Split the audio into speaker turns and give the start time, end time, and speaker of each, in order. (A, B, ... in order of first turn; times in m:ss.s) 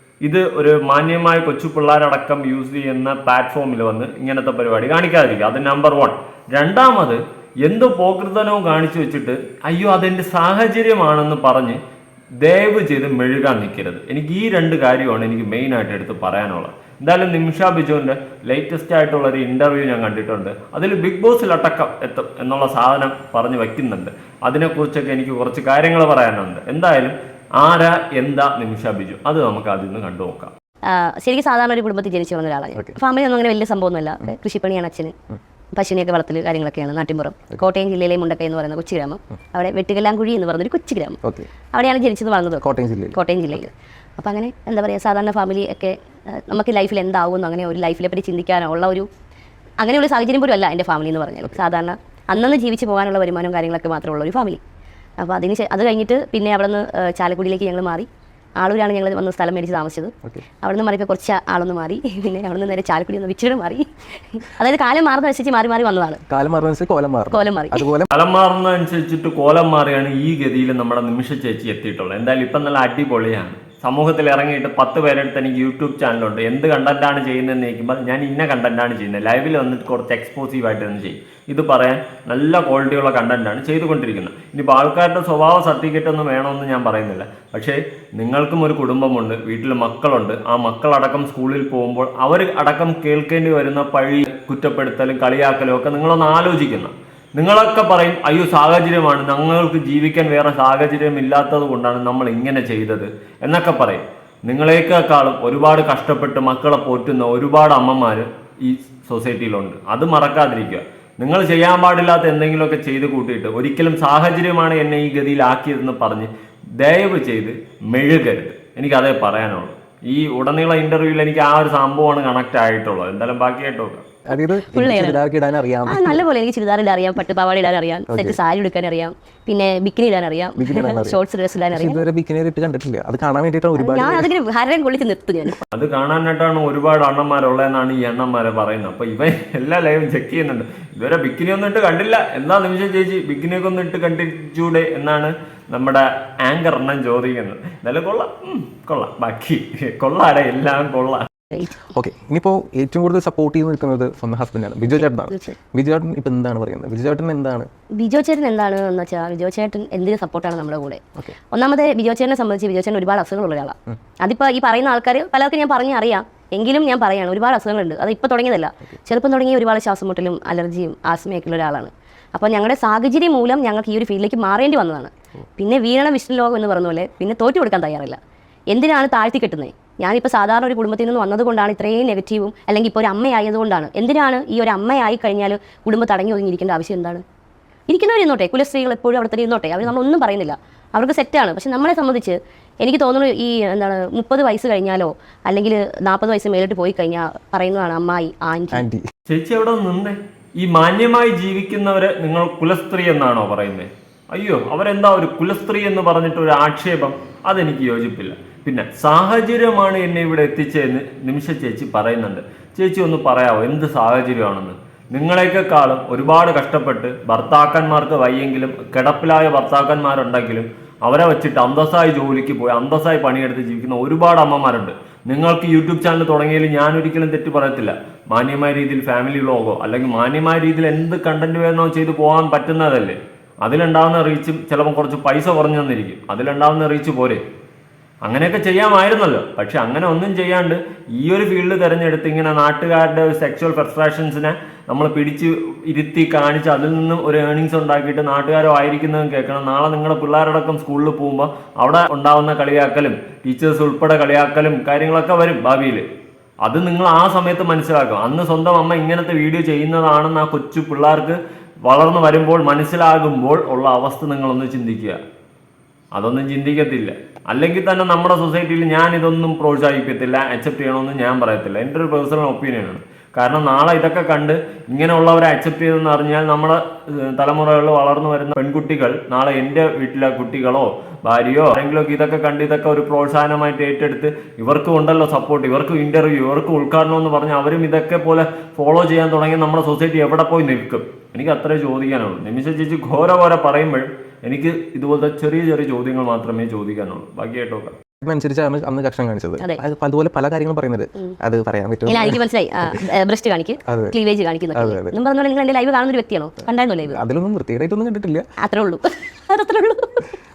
0:00.2-0:11.8 A
0:12.4-0:30.5 A
0:30.9-0:35.2 B
0:35.7-0:41.2 B
0:41.7-0:49.1 B
0:42.6-0:43.2 C
0:49.8-0:54.6 B
0:55.2-1:06.2 B
1:06.3-1:08.1 C
1:07.3-1:07.8 B
1:08.1-2:04.1 A
2:04.3-2:06.2 C
2:04.7-2:05.2 B
2:05.9-2:12.0 B
2:08.1-2:08.4 C
2:10.6-2:14.3 C
2:13.8-2:15.6 B
2:15.7-2:31.3 A
2:31.8-2:37.7 C
2:38.0-2:58.2 B
2:58.7-3:07.2 B
3:07.9-3:18.8 B
3:18.7-3:19.0 C
3:19.3-3:57.4 A
3:58.2-4:16.1 A
4:16.6-4:25.2 A
4:26.1-4:58.0 A
4:58.2-5:03.0 C
5:02.1-5:07.2 B
5:03.9-5:04.2 C
5:04.7-5:05.2 C
5:07.1-5:08.4 C
5:08.6-5:10.2 B